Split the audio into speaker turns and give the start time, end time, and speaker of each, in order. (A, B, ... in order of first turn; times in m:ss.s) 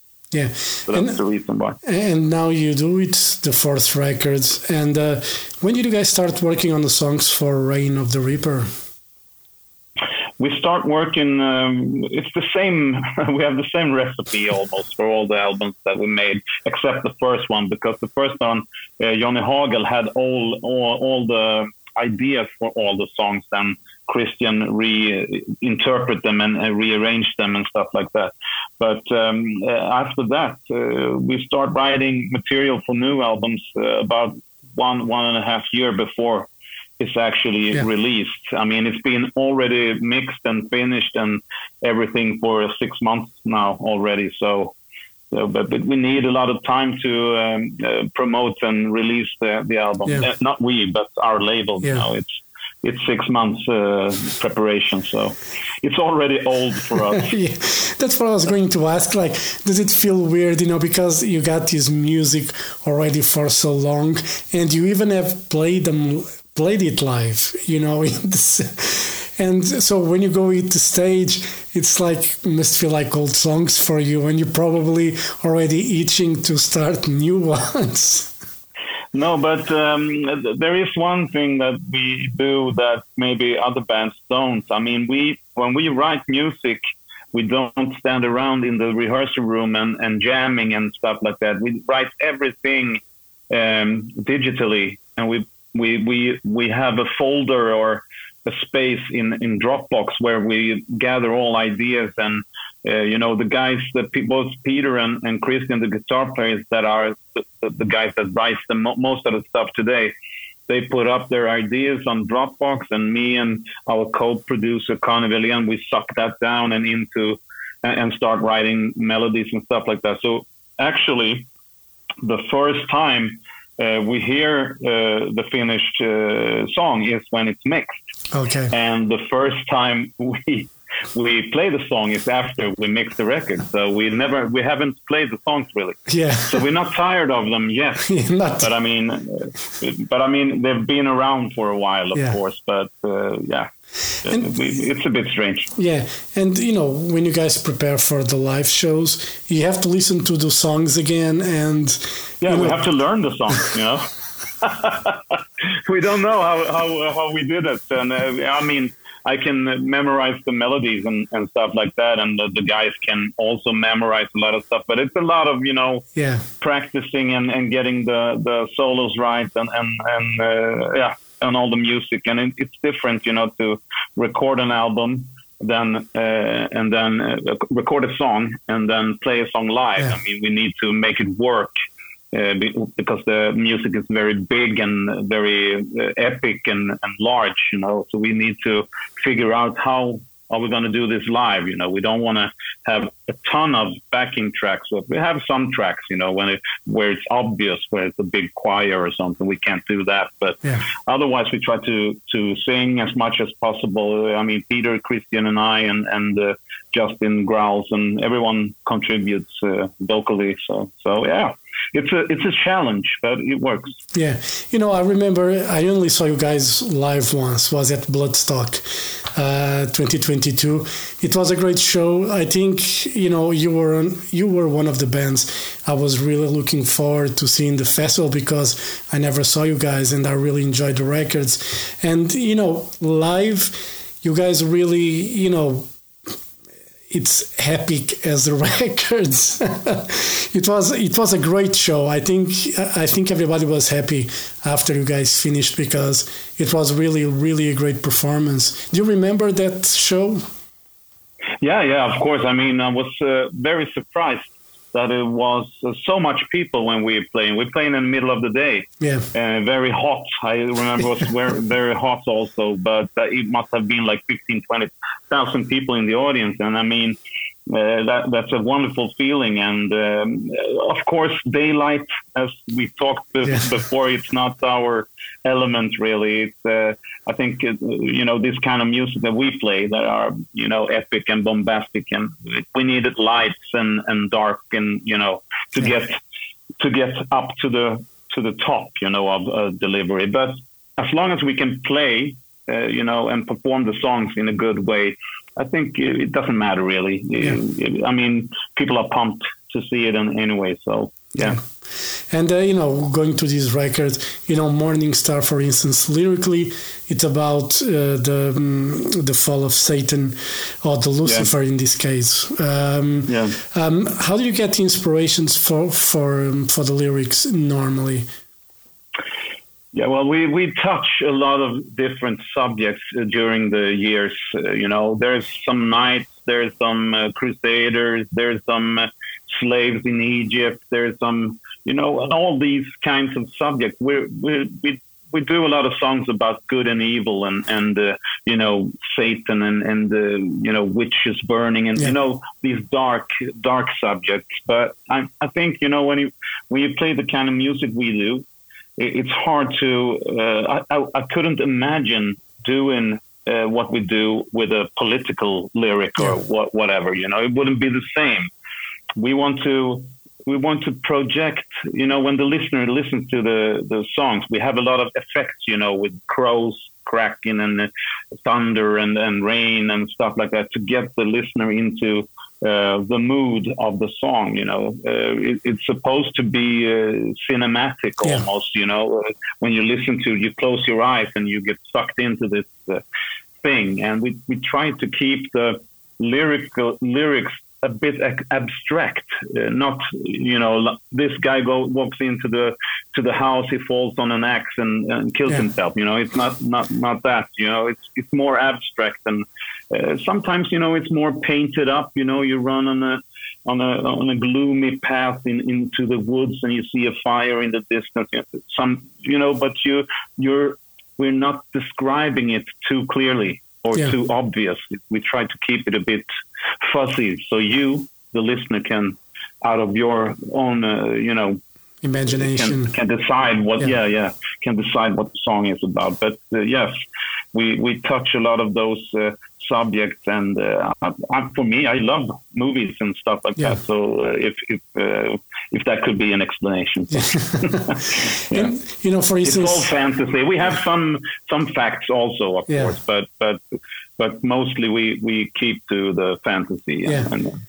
0:00.3-0:01.2 A
0:00.9-0:01.8 B
0:01.8-0:08.7 A
0:10.4-0:44.7 B
0:45.3-0:57.3 B
0:57.1-1:18.3 A
1:19.1-1:26.8 B
1:27.3-1:50.1 B
1:50.7-2:01.5 B
2:02.2-2:07.9 B
2:08.3-2:08.7 A
2:08.7-2:23.7 B
2:16.1-2:16.6 A
2:18.0-2:18.7 A
2:24.2-2:25.7 B
2:25.8-2:32.8 A
2:32.4-2:34.0 B
2:34.6-2:46.0 B
2:46.1-2:46.5 A
2:46.6-3:01.7 B
3:02.3-3:34.0 B
3:34.1-3:55.9 A
3:57.1-4:10.4 A
4:11.6-4:46.2 B
4:19.0-4:19.3 A
4:46.8-5:01.6 B
5:01.4-5:18.3 A
5:13.3-5:13.6 B
5:19.9-5:48.4 B
5:49.0-5:58.5 B
5:59.2-6:23.0 B
6:23.6-6:56.3 B
6:56.8-7:01.6 B
7:02.0-7:02.9 A
7:02.3-7:06.9 B
7:07.5-7:18.7 B
7:17.1-7:19.9 A
7:19.4-7:23.6 B
7:24.2-7:27.6 B
7:27.0-7:27.3 A